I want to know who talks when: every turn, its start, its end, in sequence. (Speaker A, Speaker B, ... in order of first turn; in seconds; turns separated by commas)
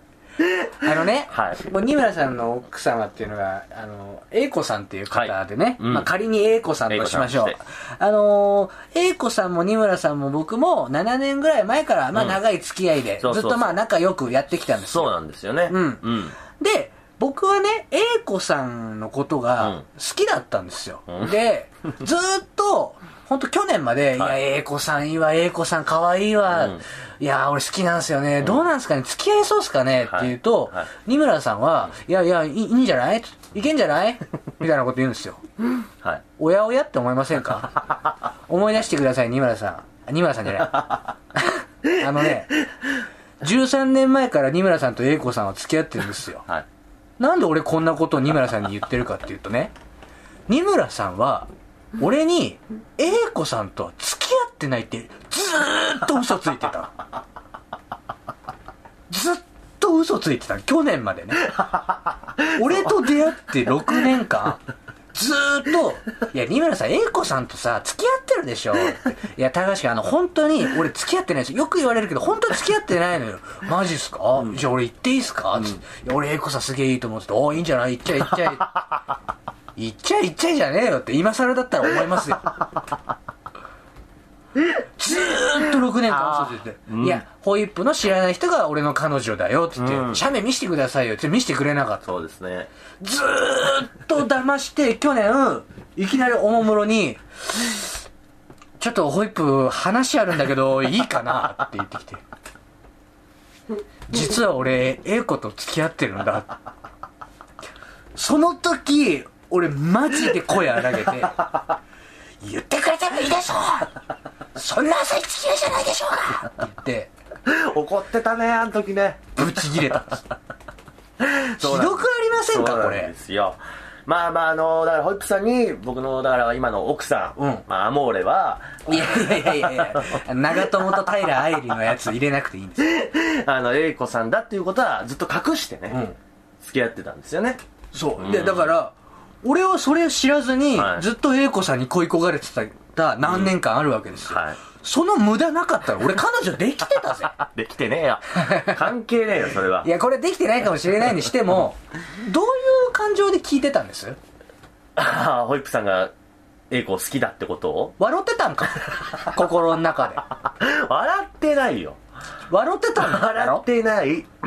Speaker A: 0.7-15.1, Speaker B: 1.3-1.6, Speaker B: 5.1-6.1, Speaker B: 6.9-7.6, Speaker B: 13.2-13.8, Speaker B: 14.8-16.4, Speaker A: 15.7-35.4, Speaker B: 26.5-26.8, Speaker B: 30.0-30.9, Speaker A: 36.4-37.8, Speaker A: 38.5-42.6, Speaker A: 43.4-46.5, Speaker A: 47.2-49.7, Speaker A: 50.5-57.0, Speaker A: 59.1-61.6, Speaker A: 62.5-64.6, Speaker A: 65.1-78.8, Speaker A: 79.8-82.5, Speaker A: 85.0-92.1, Speaker B: 86.1-87.2, Speaker B: 89.8-90.2, Speaker B: 92.0-92.7, Speaker A: 93.0-97.9, Speaker A: 98.8-102.2, Speaker A: 104.1-106.5, Speaker A: 108.1-111.5, Speaker A: 112.4-114.0, Speaker A: 114.5-117.1, Speaker B: 117.5-119.6, Speaker A: 119.3-120.2, Speaker B: 121.2-130.2, Speaker A: 121.6-123.1, Speaker A: 127.4-127.6, Speaker A: 128.8-132.9, Speaker B: 132.8-136.0, Speaker A: 135.9-136.2, Speaker B: 136.6-137.6, Speaker A: 137.9-147.3, Speaker B: 138.2-138.7, Speaker B: 140.7-141.1, Speaker B: 143.2-143.5, Speaker B: 144.2-144.6, Speaker B: 147.2-149.9, Speaker A: 148.4-148.8, Speaker A: 149.8-154.2, Speaker B: 154.9-156.1, Speaker B: 156.7-157.9, Speaker A: 158.0-160.2, Speaker B: 160.4-162.0, Speaker A: 162.5-163.6, Speaker B: 163.0-164.3